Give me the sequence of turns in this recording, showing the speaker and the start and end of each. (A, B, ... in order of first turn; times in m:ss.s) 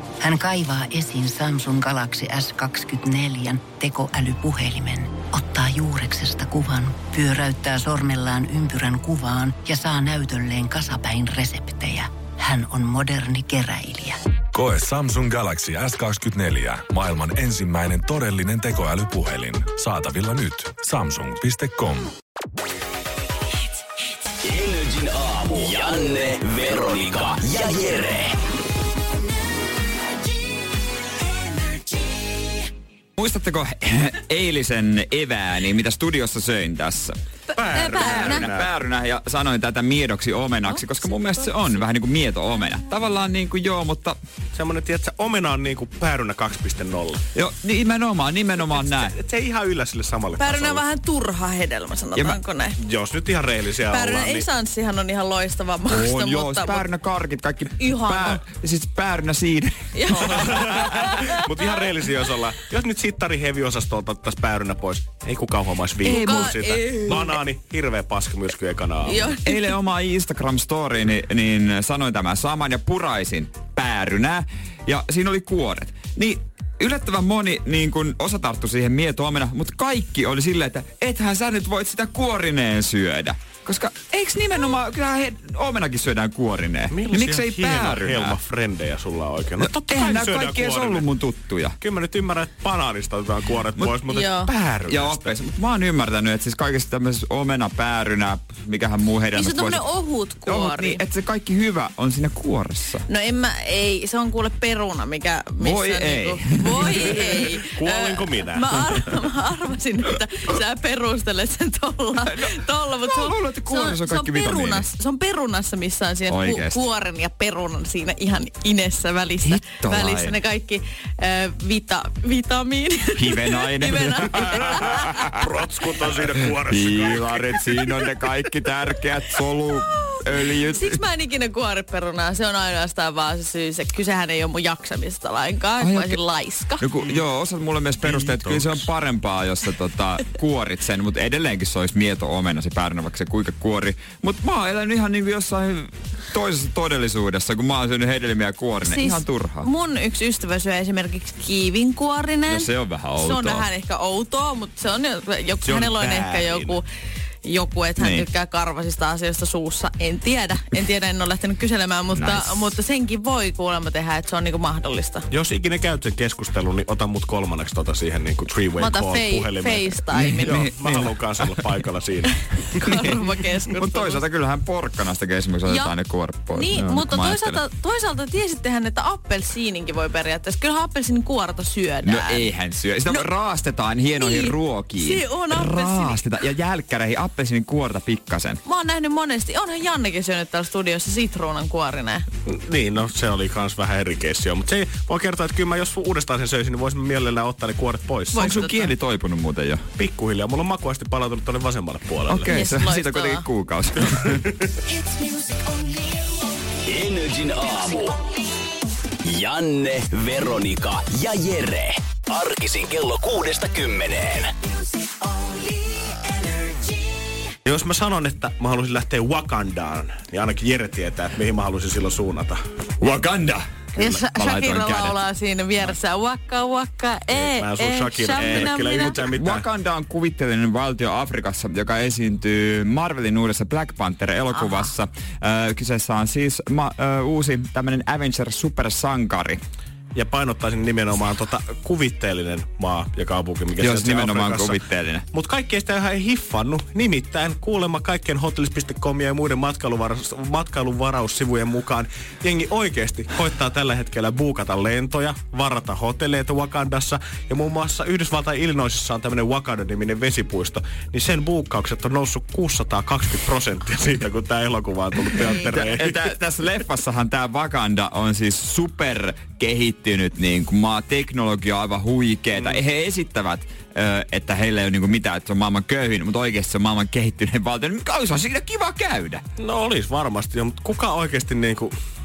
0:00.2-0:14.2 A
0:14.5-0:22.1 B
0:24.4-0:28.4 C
0:33.2-0:37.2 D
0:37.6-0:38.7 E
0:37.6-0:38.5 F
0:37.8-0:44.2 D
0:40.7-0:41.7 F
0:44.5-0:47.2 E
0:47.4-0:49.2 D
0:48.6-0:50.9 E
0:50.4-0:52.8 F
0:52.1-0:52.4 D
0:52.8-0:54.5 E
0:53.8-0:56.9 F
0:55.9-1:01.1 D
0:57.8-0:58.4 F
1:00.0-1:01.7 F
1:00.2-1:09.4 E
1:06.0-1:07.4 F
1:06.1-1:06.8 D
1:09.0-1:09.7 F
1:09.4-1:28.4 D
1:26.9-1:31.1 E
1:29.6-1:31.8 D
1:31.8-1:35.3 E
1:33.8-1:39.8 D
1:34.1-1:34.5 F
1:39.3-1:41.0 F
1:40.4-1:43.0 D
1:43.1-2:05.3 F
1:45.6-1:47.5 D
1:47.0-1:49.0 E
1:52.2-1:54.9 D
1:56.3-1:56.8 D
1:59.4-2:00.4 D
2:03.2-2:05.4 D
2:04.5-2:07.9 E
2:06.6-2:11.0 D
2:10.1-2:16.9 F
2:15.8-2:16.2 D
2:16.8-2:29.7 D
2:18.0-2:18.9 E
2:28.8-2:36.8 F
2:32.5-2:33.7 D
2:35.6-2:36.8 E
2:37.4-2:45.3 F
2:38.0-2:38.3 D
2:42.1-2:42.8 D
2:45.3-2:53.0 E
2:48.8-2:50.7 F
2:50.1-2:51.8 D
2:52.8-2:54.2 F
2:52.9-2:53.2 D
2:53.8-2:57.6 D
2:55.7-2:56.0 F
2:56.5-3:02.5 F
3:02.0-3:08.6 D
3:04.2-3:06.2 F
3:08.6-3:12.3 F
3:12.5-3:18.6 E
3:18.3-3:18.9 F
3:18.4-3:19.9 D
3:20.0-3:22.6 E
3:22.3-3:24.5 D
3:22.4-3:23.5 F
3:26.8-3:28.2 C
3:29.2-3:34.5 C
3:37.7-3:42.6 E
3:43.0-3:43.6 D
3:44.0-3:44.2 E
3:44.0-3:49.3 F
3:44.3-3:45.2 D
3:47.3-3:49.7 E
3:48.4-3:59.6 D
3:54.5-3:54.9 F
4:00.2-4:04.8 E
4:03.8-4:05.2 D
4:05.3-4:26.2 E
4:25.7-4:39.4 D
4:39.6-4:41.9 E